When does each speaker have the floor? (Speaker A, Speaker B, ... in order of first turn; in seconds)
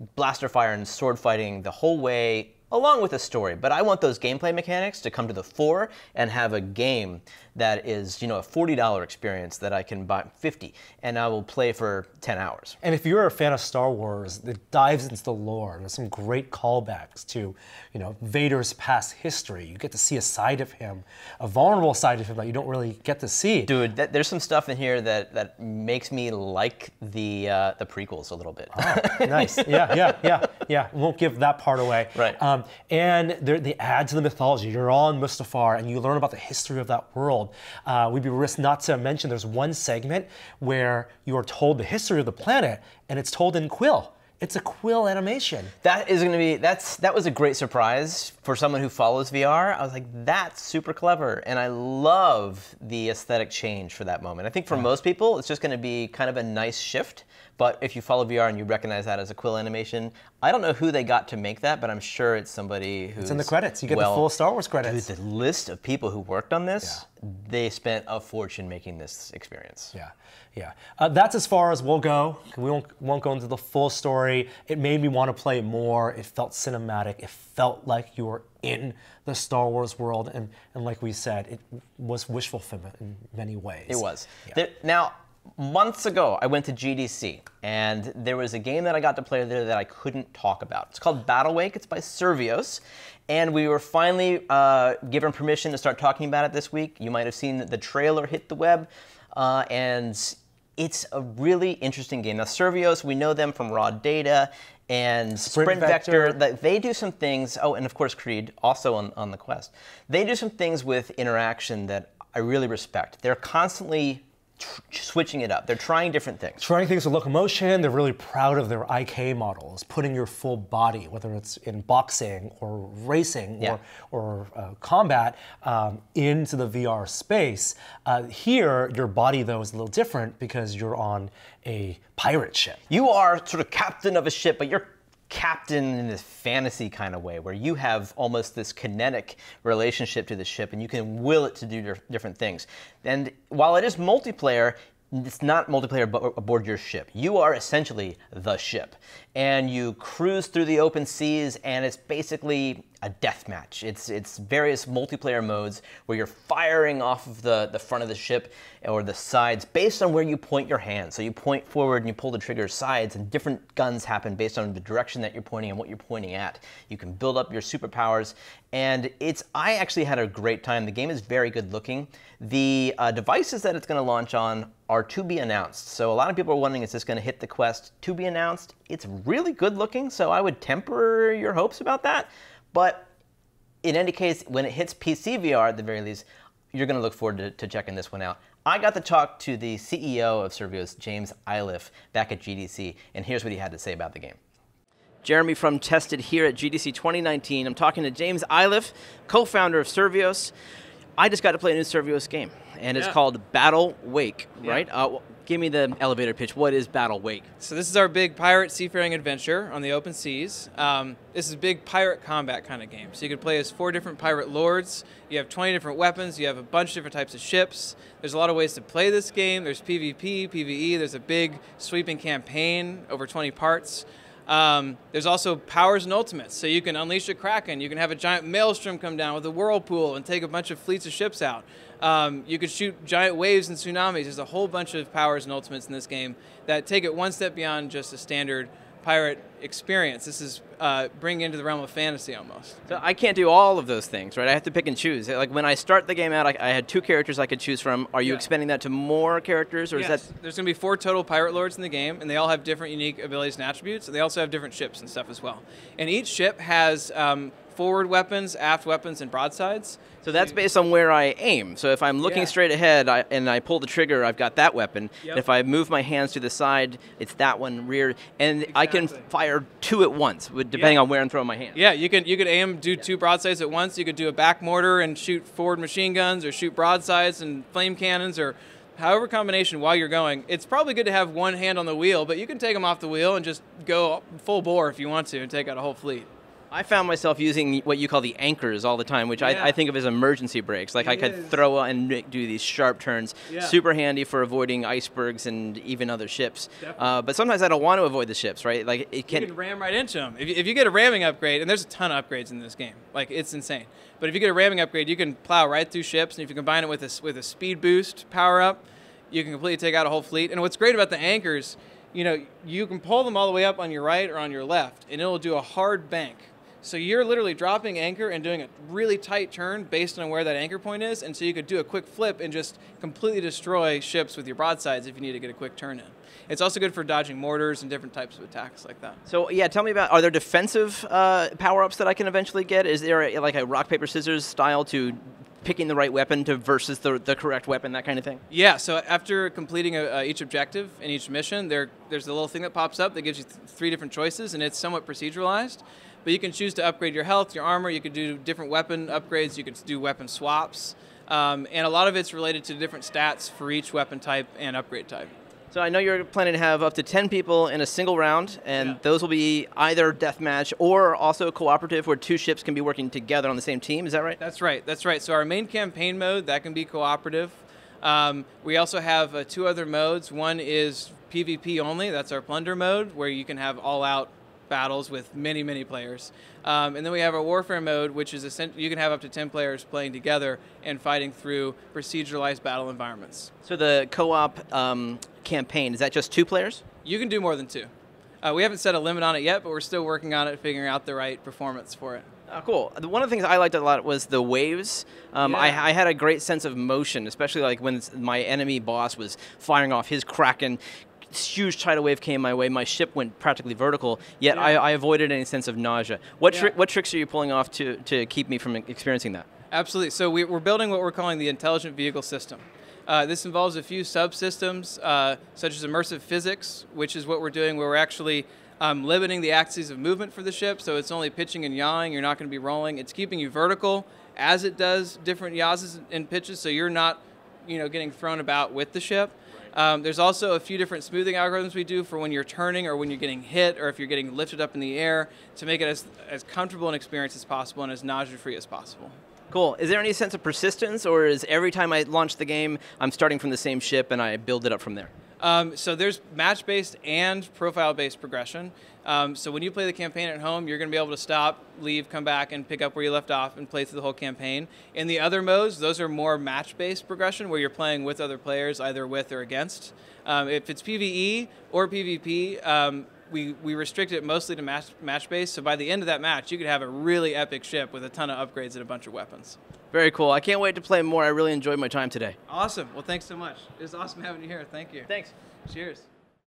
Speaker A: 0.1-12.8, 23.7-30.4, 45.8-64.2, 64.8-69.9, 83.9-116.6, 132.9-183.1, 183.8-194.4, 195.2-200.5, 201.2-207.5, 242.9-250.3, 260.2-271.8, 286.7-299.5, 329.3-338.4, 355.7-364.4, 383.6-386.8, 392.5-409.5, 439.5-445.1, 469.9-472.4, 475.1-475.3
Speaker B: 12.8-23.7, 28.7-45.7, 63.2-65.1, 69.9-84.5, 105.4-106.4, 116.6-132.8
Speaker C: 207.6-242.9, 249.9-260.5, 262.2-262.5, 268.7-269.2, 271.7-286.3, 289.4-289.8, 291.0-291.6, 293.5-293.7, 296.8-297.1, 299.3-329.2, 338.5-355.3, 364.4-383.5, 387.0-387.9, 388.4-392.3, 395.4-395.8, 404.5-404.8, 409.7-439.1, 445.4-469.6, 472.5-475.1, 475.6-476.1